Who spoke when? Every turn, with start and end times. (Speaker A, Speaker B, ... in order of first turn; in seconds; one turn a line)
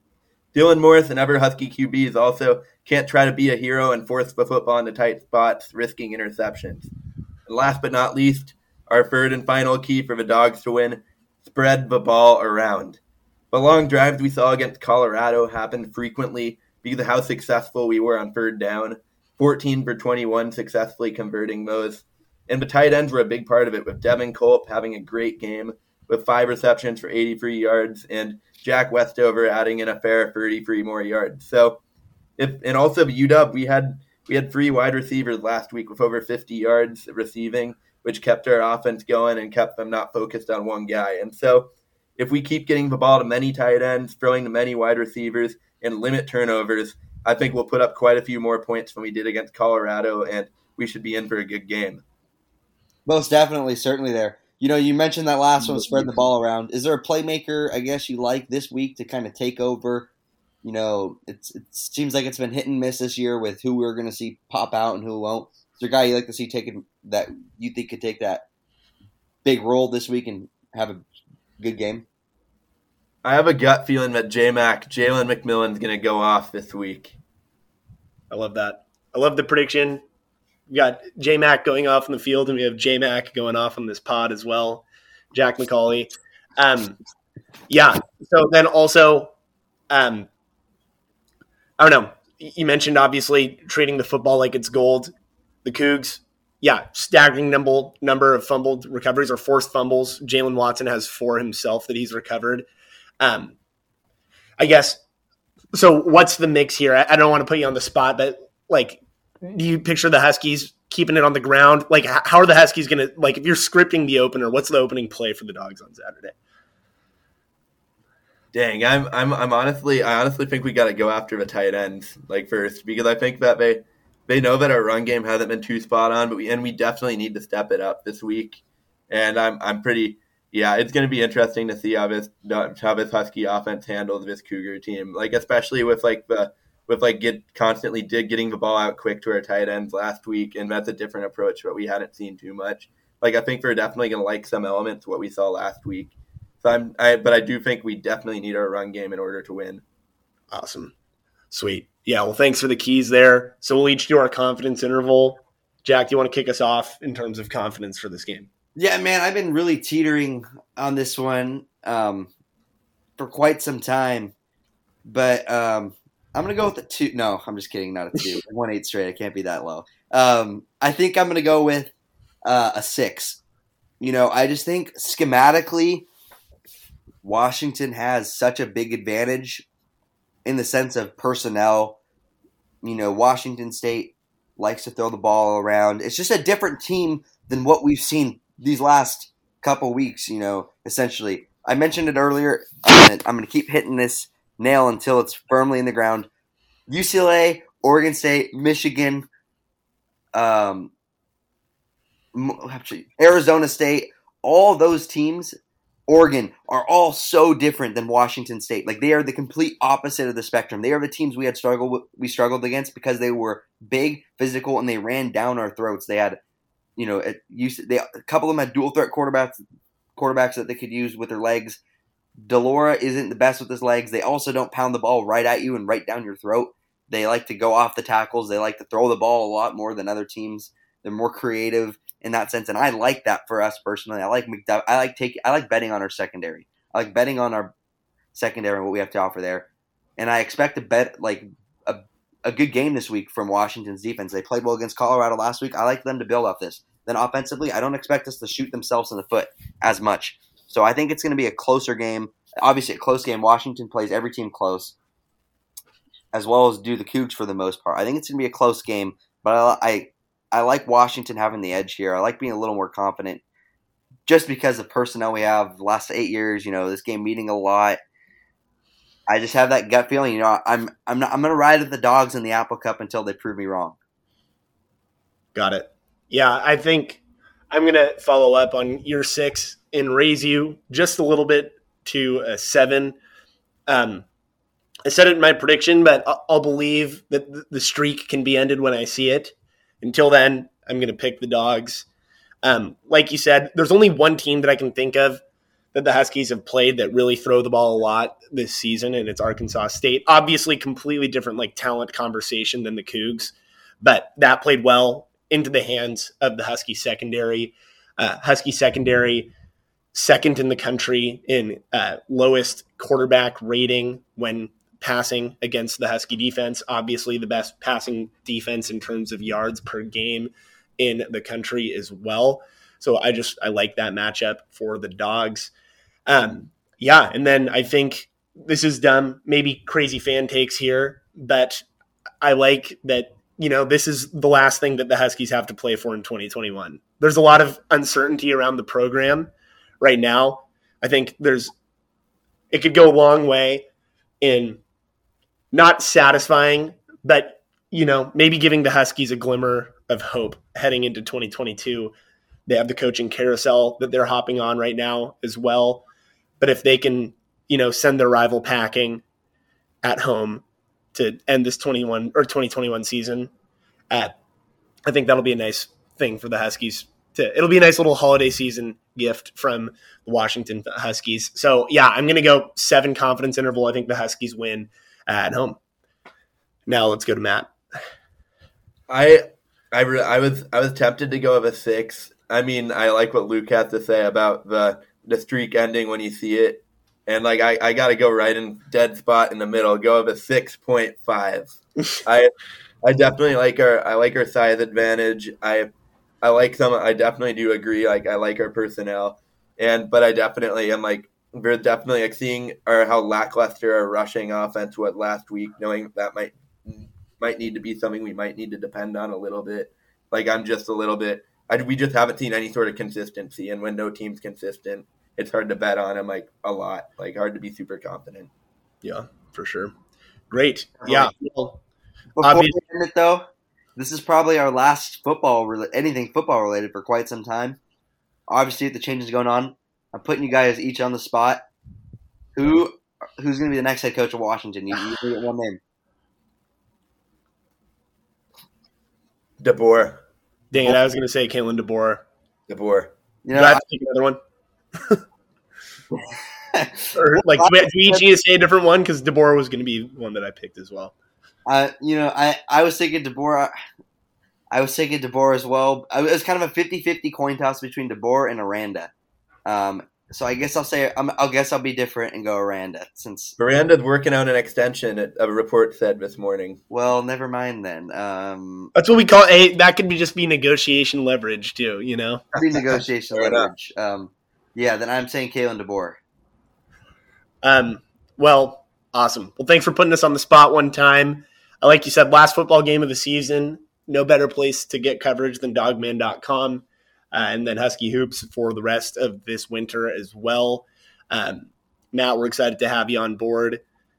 Speaker A: 0.5-6.9
Speaker A: 7.5-13.0
Speaker A: 13.5-31.8
Speaker A: 32.4-52.0
Speaker B: 53.1-60.1
Speaker C: 55.7-56.1
Speaker B: 60.6-68.4
Speaker B: 69.5-71.0
Speaker B: 71.6-72.0
Speaker A: 73.2-77.2
Speaker C: 78.3-80.0
Speaker C: 80.7-87.0
Speaker C: 87.7-89.3
Speaker C: 89.9-90.3
Speaker C: 91.8-95.1
Speaker C: 95.6-102.7
Speaker C: 103.2-103.6
Speaker C: 104.6-105.0
Speaker C: 105.7-116.4
Speaker A: 118.5-149.8
Speaker C: 150.5-150.9
Speaker C: 151.5-158.5
Speaker B: 158.8-162.3
Speaker B: 163.2-164.3
Speaker B: 165.1-173.4
Speaker B: 174.0-176.1
Speaker B: 177.2-179.7
Speaker B: 180.4-182.0
Speaker B: 182.8-196.3
Speaker B: 196.9-199.3
Speaker B: 200.3-200.9
Speaker B: 202.3-205.6
Speaker B: 206.1-216.4
Speaker B: 217.0-219.6
Speaker B: 220.2-221.8
Speaker B: 222.4-237.7
Speaker B: 238.3-254.9
Speaker B: 256.3-263.4
Speaker B: 264.3-268.0
Speaker B: 269.3-274.0
Speaker C: 275.6-283.2
Speaker C: 283.9-284.3
Speaker C: 285.1-292.1
Speaker C: 292.6-295.4
Speaker C: 295.9-309.5
Speaker C: 310.1-325.7
Speaker C: 326.3-331.9
Speaker C: 332.4-339.5
Speaker C: 340.0-341.7
Speaker C: 342.7-343.9
Speaker C: 344.4-344.8
Speaker C: 345.7-352.1
Speaker C: 352.7-356.0
Speaker C: 356.6-359.2
Speaker C: 360.0-363.5
Speaker C: 365.1-375.8
Speaker C: 376.9-377.7
Speaker A: 379.1-392.5
Speaker A: 393.0-395.9
Speaker A: 396.4-418.5
Speaker C: 419.0-419.9
Speaker C: 420.5-421.8
Speaker B: 421.0-421.3
Speaker B: 422.4-423.4
Speaker C: 422.4-422.8
Speaker B: 424.0-427.8
Speaker B: 428.5-431.6
Speaker B: 432.6-435.8
Speaker A: 439.6-440.2
Speaker C: 440.7-442.2
Speaker A: 442.7-443.1
Speaker B: 443.4-443.8
Speaker C: 443.6-444.4
Speaker B: 446.3-448.2
Speaker C: 447.1-451.1
Speaker B: 451.7-453.7
Speaker B: 454.7-459.1
Speaker B: 459.7-463.6
Speaker A: 463.6-466.8
Speaker B: 466.9-468.9
Speaker C: 468.9-472.4
Speaker B: 472.6-476.2
Speaker A: 473.4-473.7
Speaker C: 477.6-493.8